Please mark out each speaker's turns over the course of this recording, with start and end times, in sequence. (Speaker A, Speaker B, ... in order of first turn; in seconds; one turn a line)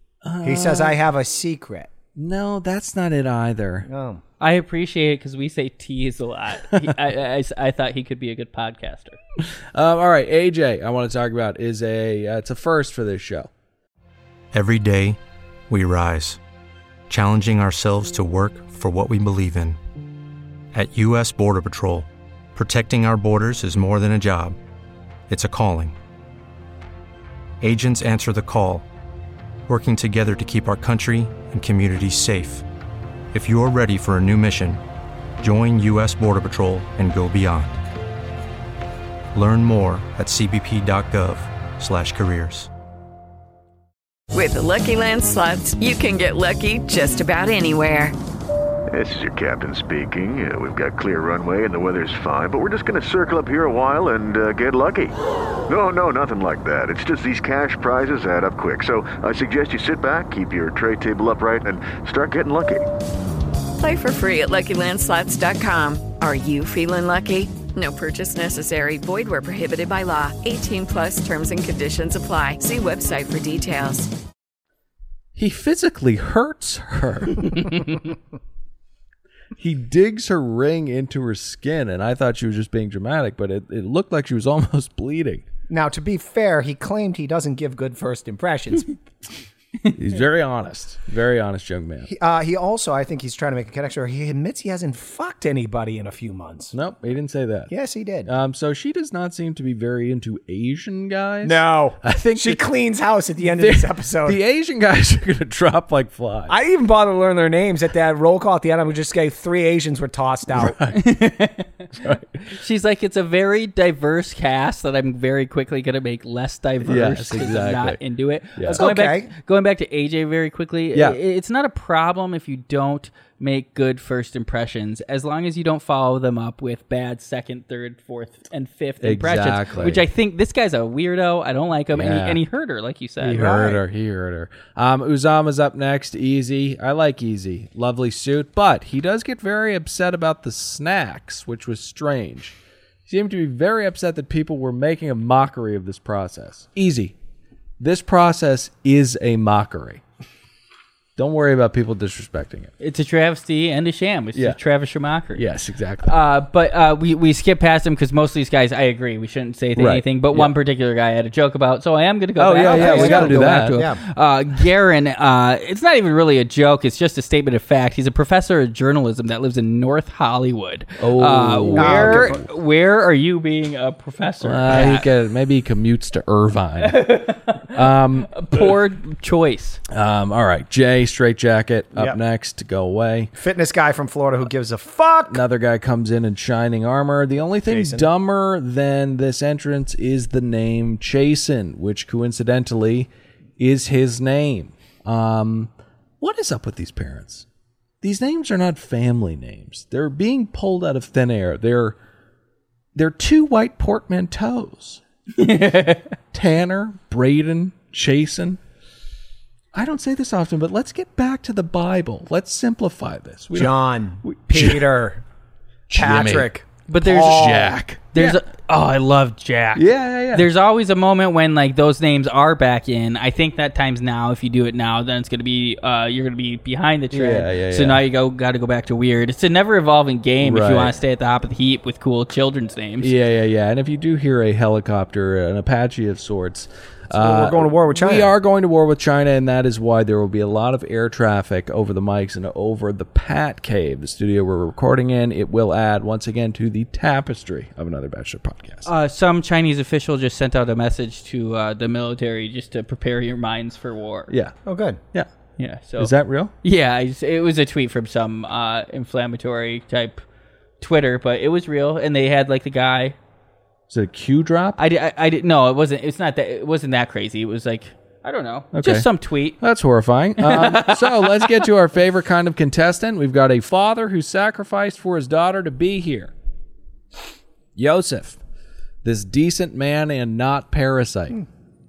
Speaker A: 0.2-1.0
Speaker B: 0.4-1.9
Speaker A: 2.2-3.9
Speaker B: 3.9-4.2
Speaker C: 4.4-9.2
Speaker A: 9.4-13.5
Speaker D: 14.5-16.4
Speaker D: 17.1-19.8
Speaker D: 20.7-24.6
Speaker D: 25.3-26.0
Speaker D: 27.6-28.9
Speaker D: 29.7-32.6
Speaker D: 33.3-34.8
Speaker D: 35.4-37.8
Speaker D: 39.3-42.7
Speaker E: 44.3-48.1
Speaker F: 48.9-55.1
Speaker F: 55.7-62.9
Speaker E: 63.8-74.1
Speaker A: 75.4-77.8
Speaker A: 79.6-85.5
Speaker B: 85.7-89.0
Speaker A: 89.9-92.1
Speaker B: 92.1-96.7
Speaker A: 96.7-97.7
Speaker B: 97.7-98.3
Speaker A: 98.2-102.6
Speaker B: 101.4-104.4
Speaker A: 103.5-106.5
Speaker B: 106.5-110.8
Speaker A: 110.5-111.1
Speaker C: 111.0-111.8
Speaker A: 111.9-112.4
Speaker C: 112.5-133.5
Speaker A: 116.8-118.0
Speaker A: 118.6-118.8
Speaker B: 118.7-119.3
Speaker A: 120.9-121.2
Speaker A: 129.0-130.0
Speaker A: 131.9-132.4
Speaker A: 133.2-147.2
Speaker B: 133.3-133.8
Speaker A: 147.8-150.0
Speaker A: 151.2-152.7
Speaker C: 152.8-155.4
Speaker A: 155.3-156.2
Speaker C: 156.0-175.1
Speaker A: 159.8-160.6
Speaker A: 162.4-163.8
Speaker B: 162.6-164.0
Speaker A: 171.0-172.4
Speaker B: 171.8-172.4
Speaker A: 174.4-178.6
Speaker C: 176.8-179.8
Speaker A: 179.9-183.3
Speaker B: 183.4-185.4
Speaker A: 185.3-197.5
Speaker B: 187.7-188.1
Speaker A: 198.0-202.0
Speaker A: 202.9-205.0
Speaker C: 205.4-206.2
Speaker A: 206.3-208.6
Speaker A: 209.7-213.7
Speaker B: 213.5-215.2
Speaker A: 214.2-214.9
Speaker A: 215.9-216.5
Speaker B: 215.9-217.8
Speaker C: 216.9-217.5
Speaker A: 217.0-218.4
Speaker C: 218.1-233.1
Speaker A: 219.8-220.5
Speaker A: 227.1-228.0
Speaker A: 230.4-230.9
Speaker A: 233.0-248.9
Speaker B: 237.1-238.3
Speaker C: 248.9-254.3
Speaker A: 254.3-254.6
Speaker B: 254.7-255.0
Speaker C: 255.6-260.2
Speaker A: 256.0-256.5
Speaker C: 260.8-263.2
Speaker A: 263.9-264.8
Speaker C: 264.8-269.6
Speaker A: 268.7-269.1
Speaker A: 269.6-276.3
Speaker C: 270.4-271.6
Speaker A: 277.8-278.4
Speaker A: 279.0-281.4